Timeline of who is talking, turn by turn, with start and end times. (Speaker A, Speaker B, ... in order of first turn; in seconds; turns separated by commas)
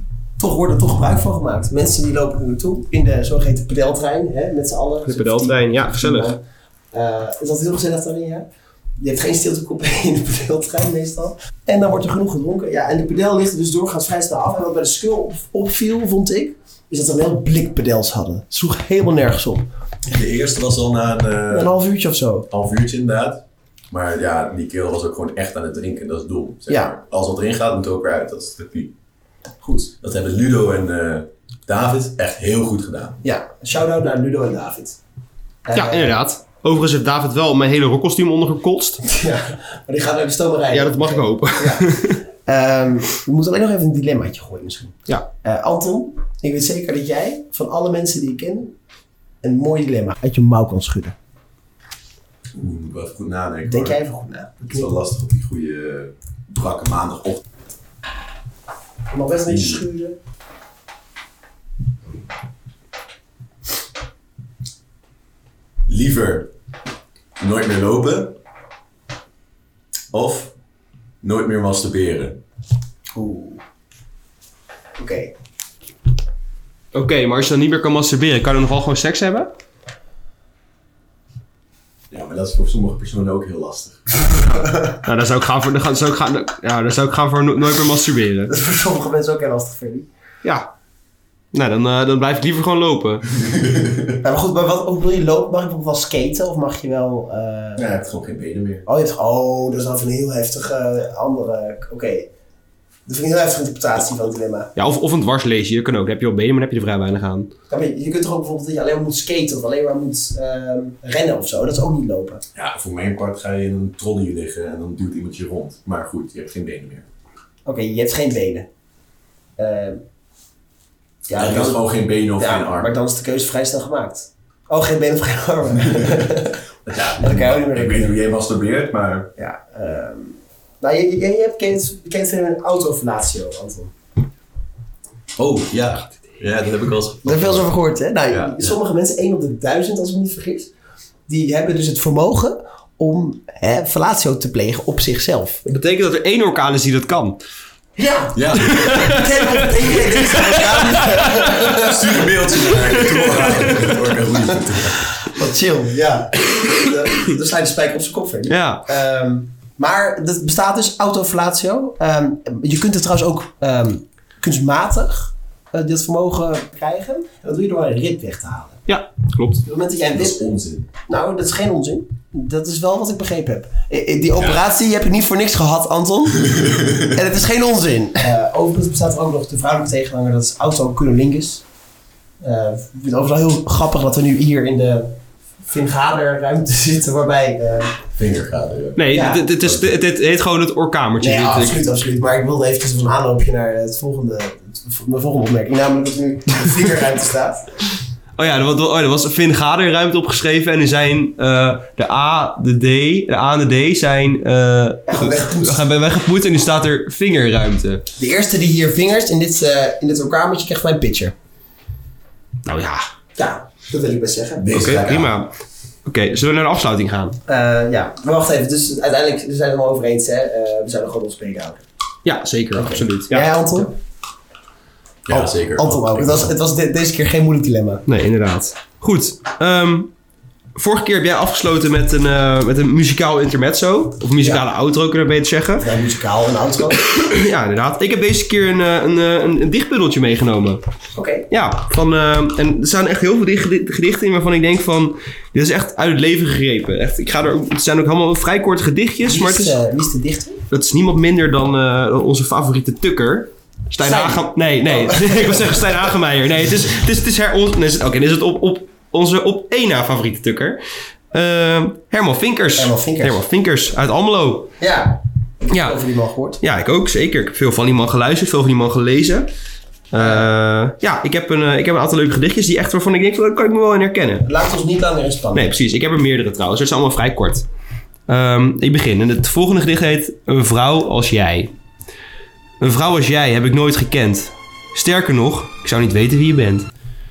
Speaker A: 0.4-8.5, Speaker B: 5.1-6.3, Speaker A: 9.0-19.7, Speaker C: 20.1-21.7, Speaker A: 21.5-22.5, Speaker C: 22.5-28.9, Speaker A: 29.6-29.9, Speaker C: 30.0-33.2, Speaker A: 33.2-35.0, Speaker A: 35.6-36.2, Speaker B: 35.7-39.0, Speaker A: 39.0-48.8, Speaker B: 40.7-42.2, Speaker A: 49.4-51.2, Speaker C: 52.5-54.0, Speaker A: 53.7-55.0, Speaker C: 54.7-57.4, Speaker A: 59.1-60.2, Speaker C: 59.5-59.8, Speaker C: 65.9-66.5, Speaker C: 67.4-68.4, Speaker C: 70.1-70.5, Speaker C: 71.2-72.4, Speaker A: 73.2-73.6, Speaker A: 75.0-75.3, Speaker B: 76.9-79.5, Speaker C: 82.1-84.8, Speaker B: 85.0-88.5, Speaker A: 88.5-90.1, Speaker B: 91.5-93.2, Speaker C: 93.3-94.2, Speaker A: 94.2-97.8, Speaker C: 97.8-98.9, Speaker A: 98.8-102.3, Speaker A: 103.1-104.7, Speaker B: 104.8-107.5, Speaker A: 107.7-112.4, Speaker C: 112.5-117.1, Speaker A: 117.7-118.7, Speaker A: 119.6-120.0, Speaker A: 121.3-126.7, Speaker C: 121.4-122.9, Speaker C: 126.0-126.2, Speaker C: 126.9-129.3, Speaker A: 127.2-128.2, Speaker A: 129.4-133.9, Speaker C: 135.4-137.7, Speaker A: 137.2-140.7, Speaker C: 138.3-138.7, Speaker A: 141.3-145.6, Speaker B: 145.7-147.4, Speaker A: 148.0-153.9, Speaker C: 148.3-150.1, Speaker B: 148.6-151.9, Speaker C: 150.9-155.2, Speaker B: 152.8-154.0, Speaker A: 154.4-168.8, Speaker B: 158.5-158.9, Speaker B: 168.9-169.6, Speaker A: 169.6-181.6, Speaker C: 170.2-170.9, Speaker C: 176.5-177.1, Speaker A: 182.4-188.0, Speaker C: 188.2-189.9, Speaker B: 189.0-191.9, Speaker A: 189.1-189.5, Speaker A: 191.2-197.7, Speaker B: 198.4-208.1, Speaker A: 205.1-205.9, Speaker A: 208.2-211.3, Speaker B: 212.7-213.1, Speaker A: 213.4-215.2, Speaker C: 214.6-215.3, Speaker B: 214.7-215.5, Speaker B: 216.1-217.4, Speaker A: 217.5-221.8, Speaker B: 222.2-223.9, Speaker A: 222.7-223.9, Speaker C: 225.3-226.5, Speaker A: 225.3-228.0, Speaker B: 228.1-230.1, Speaker B: 230.8-235.9, Speaker A: 234.4-234.7, Speaker A: 235.8-237.0, Speaker B: 237.1-240.8, Speaker A: 241.1-241.5, Speaker B: 241.5-249.8, Speaker A: 249.2-250.6, Speaker B: 250.7-264.7, Speaker A: 254.0-255.9, Speaker A: 262.8-263.4, Speaker A: 264.8-266.6, Speaker B: 265.7-266.0, Speaker B: 266.6-269.5, Speaker B: 270.1-274.5, Speaker A: 270.2-270.5, Speaker A: 274.4-275.8, Speaker B: 275.5-277.6, Speaker B: 278.3-281.7, Speaker B: 282.8-286.9